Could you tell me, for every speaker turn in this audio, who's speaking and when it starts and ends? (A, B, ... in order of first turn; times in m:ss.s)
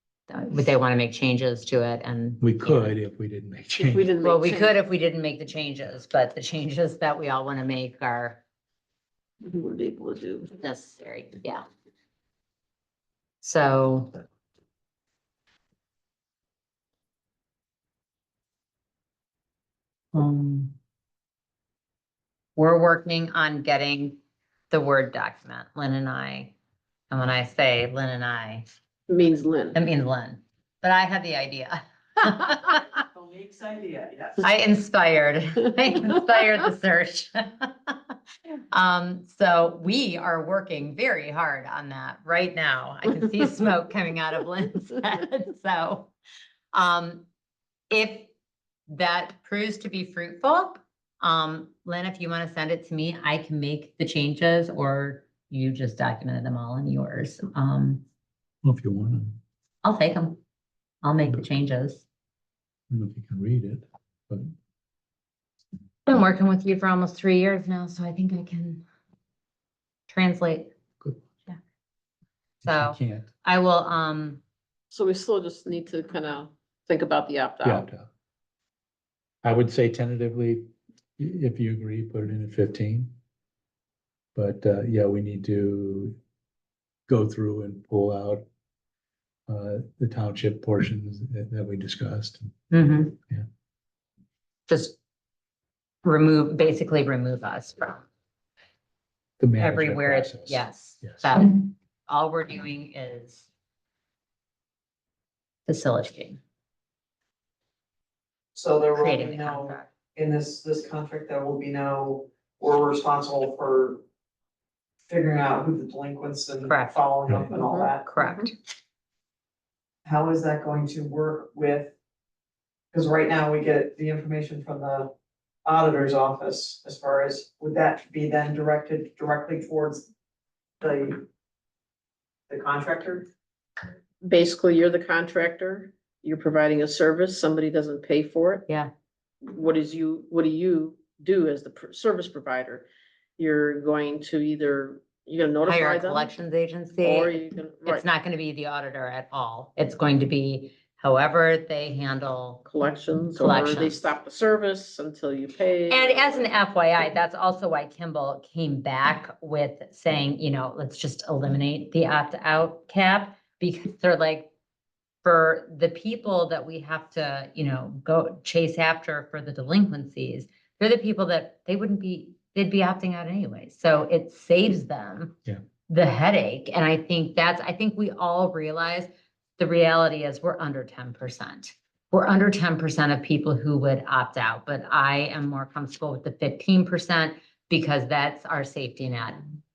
0:00.3-0:02.9 A
0:02.4-0:04.1 B
0:03.8-0:04.8 C
0:04.2-0:08.4 A
0:09.4-0:10.5 C
0:10.5-0:11.6 A
0:13.4-0:14.1 A
0:20.1-0:20.7 A
0:22.6-0:24.2 A
0:24.7-0:26.5 A
0:27.1-0:28.6 A
0:29.1-0:29.8 C
0:29.7-0:32.9 A
0:33.0-0:34.4 D
0:34.4-0:38.0 A
0:38.7-0:46.1 A
0:46.7-0:47.2 A
0:47.9-0:48.3 A
0:48.9-0:58.0 A
0:58.6-0:59.4 B
0:59.8-1:00.4 A
1:01.0-1:02.0 A
1:02.9-1:04.5 B
1:06.0-1:08.8 A
1:10.1-1:10.7 A
1:12.6-1:13.3 B
1:12.6-1:14.4 A
1:14.9-1:17.9 C
1:17.6-1:18.1 B
1:19.4-1:23.1 B
1:24.3-1:26.2 B
1:27.1-1:28.4 B
1:29.5-1:32.5 B
1:32.7-1:33.2 A
1:34.7-1:35.0 A
1:36.0-1:38.0 A
1:39.4-1:41.4 B
1:39.6-1:43.4 A
1:45.7-1:46.4 A
1:48.5-1:54.0 D
1:48.9-1:49.9 A
1:55.1-1:58.1 D
1:56.6-1:57.0 A
1:57.5-1:58.5 C
1:58.0-1:58.5 A
2:00.0-2:01.9 D
2:02.9-2:05.1 D
2:05.6-2:10.1 D
2:10.8-2:11.2 D
2:12.5-2:13.3 D
2:14.2-2:18.6 C
2:19.4-2:22.8 C
2:23.4-2:26.3 C
2:25.6-2:32.6 A
2:27.0-2:28.0 C
2:32.6-2:36.6 C
2:33.4-2:34.0 A
2:35.9-2:44.5 A
2:45.2-2:55.4 A
2:55.9-3:09.4 A